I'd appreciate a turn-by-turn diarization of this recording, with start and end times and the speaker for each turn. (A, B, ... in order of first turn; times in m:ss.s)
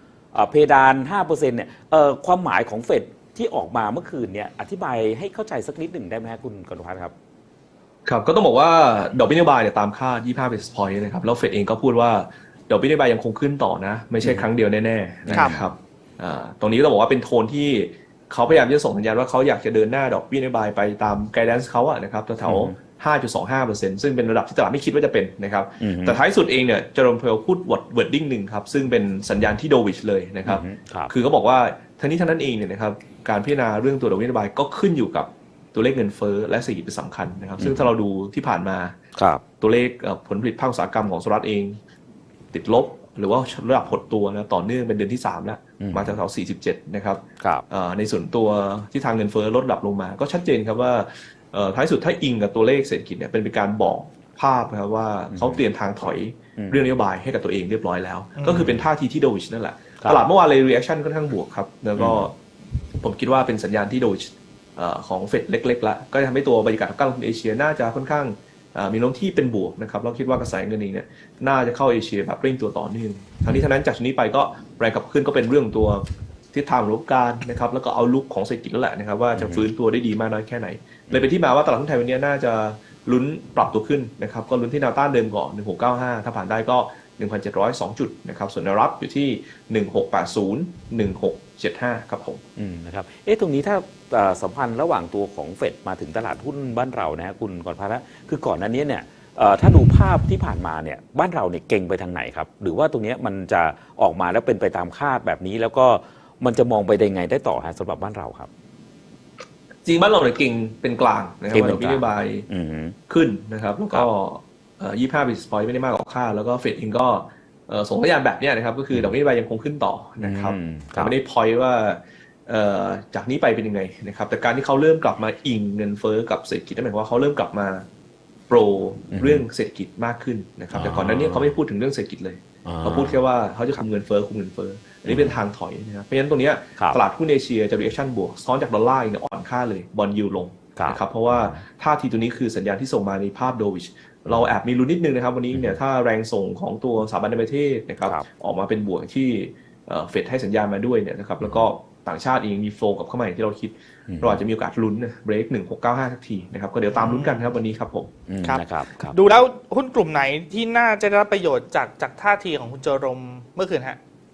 0:00.3-0:07.1 A
0:08.0-0:39.0 B
0:14.2-0:14.5 A
0:15.3-0:15.7 A
0:22.4-0:22.7 A
0:25.8-0:26.2 A
0:30.4-0:31.1 A
0:37.6-0:37.9 A
0:39.2-0:39.4 A
0:39.6-0:41.8 B
0:42.5-1:02.3 B
0:45.8-0:46.2 A
0:55.3-0:55.6 A
0:58.4-0:58.6 C
0:58.5-0:58.8 A
1:02.0-1:02.3 A
1:03.0-1:32.4 B
1:19.3-1:19.6 A
1:32.6-1:48.5 A
1:49.8-1:52.5 B
1:51.5-1:53.0 A
1:53.1-2:07.9 B
2:00.2-2:01.1 A
2:08.5-2:38.1 B
2:09.1-2:09.4 A
2:10.7-2:11.5 A
2:12.6-2:13.2 A
2:15.0-2:15.4 A
2:20.8-2:21.6 A
2:24.3-2:24.5 A
2:31.4-2:31.7 A
2:34.1-2:34.4 A
2:36.9-2:37.5 C
2:38.3-2:39.1 A
2:38.4-2:44.0 C